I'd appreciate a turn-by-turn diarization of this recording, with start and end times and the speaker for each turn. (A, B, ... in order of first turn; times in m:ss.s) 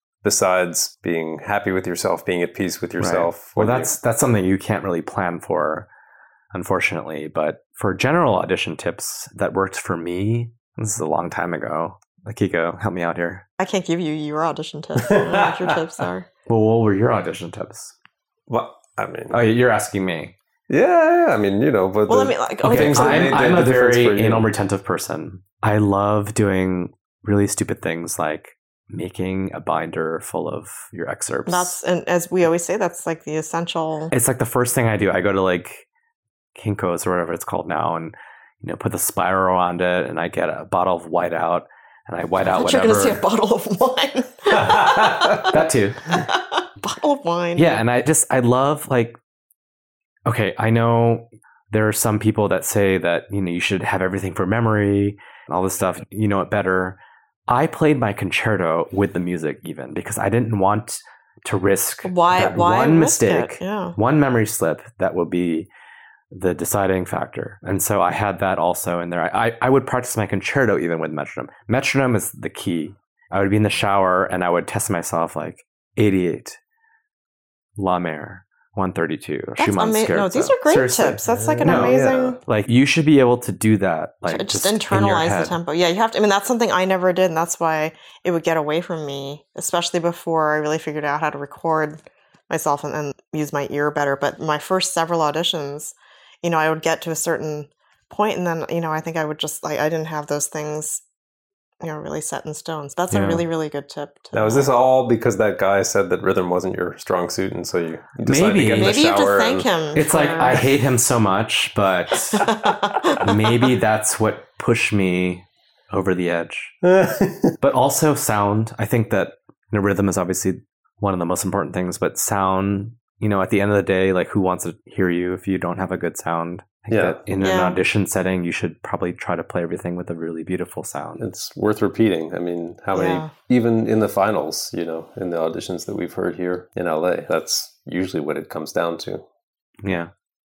0:00.2-0:03.9 A
0:03.0-0:05.9 B
0:06.5-0:13.4 B
0:13.6-0:16.3 C
0:15.0-0:15.8 A
0:16.5-0:17.9 B
0:18.5-0:19.4 A
0:19.3-0:20.4 B
0:20.7-0:24.5 A
0:22.1-0:23.5 C
0:22.6-0:31.8 B
0:31.5-0:34.1 C
0:34.1-0:35.8 B
0:36.6-0:43.2 B
0:42.5-0:45.6 C
0:44.6-0:45.4 A
0:45.2-0:46.3 B
0:46.2-0:47.8 C
0:47.6-0:49.2 B
0:50.3-1:05.7 B
1:02.0-1:04.0 C
1:06.3-1:16.6 B
1:17.8-1:25.6 B
1:19.6-1:22.4 C
1:21.3-1:22.4 A
1:24.3-1:41.0 C
1:41.8-1:44.7 C
1:43.1-1:43.5 B
1:44.3-1:49.7 A
1:48.3-1:49.0 B
1:48.7-1:50.7 C
1:49.9-1:56.8 B
1:52.3-1:53.7 C
1:56.8-1:57.6 A
1:57.6-2:11.2 B
2:06.9-2:07.2 A
2:07.4-2:07.8 C
2:11.2-2:19.2 A
2:13.0-2:13.3 C
2:19.8-2:20.1 B